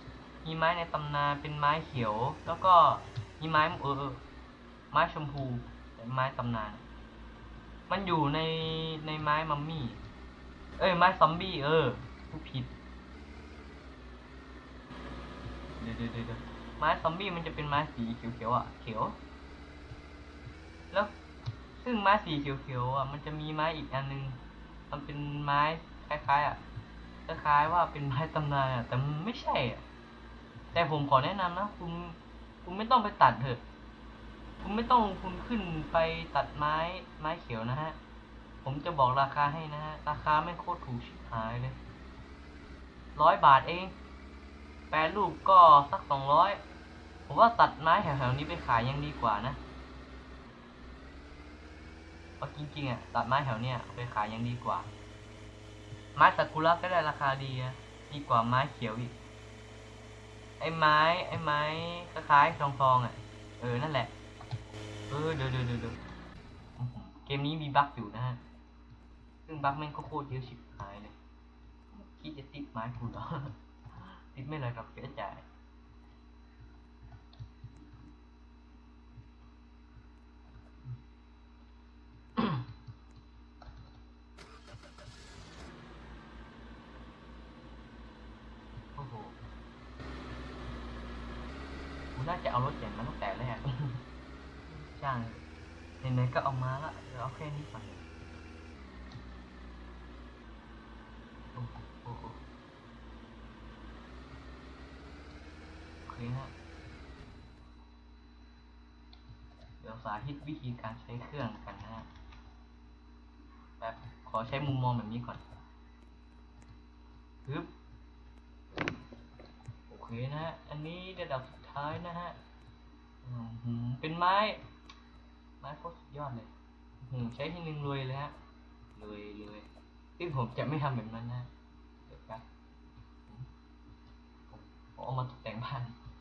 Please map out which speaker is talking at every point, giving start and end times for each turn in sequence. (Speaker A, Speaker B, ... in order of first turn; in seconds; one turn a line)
Speaker A: 0.4-4.2
Speaker A: 4.9-6.8
Speaker A: 7.9-10.0
Speaker A: 10.8-12.8
Speaker A: 15.8-19.2
Speaker A: 21.8-24.4
Speaker A: 24.9-26.6
Speaker A: 27.3-29.8
Speaker A: 30.7-33.6
Speaker A: 34.6-38.0
Speaker A: 38.6-41.8
Speaker A: 43.1-44.0
Speaker A: 44.9-46.6
Speaker A: 47.3-49.6
Speaker A: 52.4-54.9
Speaker A: 56.1-59.1
Speaker A: 60.6-64.1
Speaker A: 65.1-66.0
Speaker A: 66.8-68.4
Speaker A: 69.5-71.2
Speaker A: 71.9-75.5
Speaker A: 82.4-82.6
Speaker A: 89.0-89.4
Speaker A: 92.1-94.0
Speaker A: 94.7-95.4
Speaker A: 96.0-98.0
Speaker A: 101.5-102.4
Speaker A: 106.0-106.5
Speaker A: 109.8-112.1
Speaker A: 113.8-115.4
Speaker A: 117.5-117.7
Speaker A: 119.9-122.4
Speaker A: 123.2-124.6
Speaker A: 125.6-126.5
Speaker A: 127.0-128.3
Speaker A: 128.9-129.7
Speaker A: 130.2-131.5
Speaker A: 132.1-132.4
Speaker A: 134.5-135.9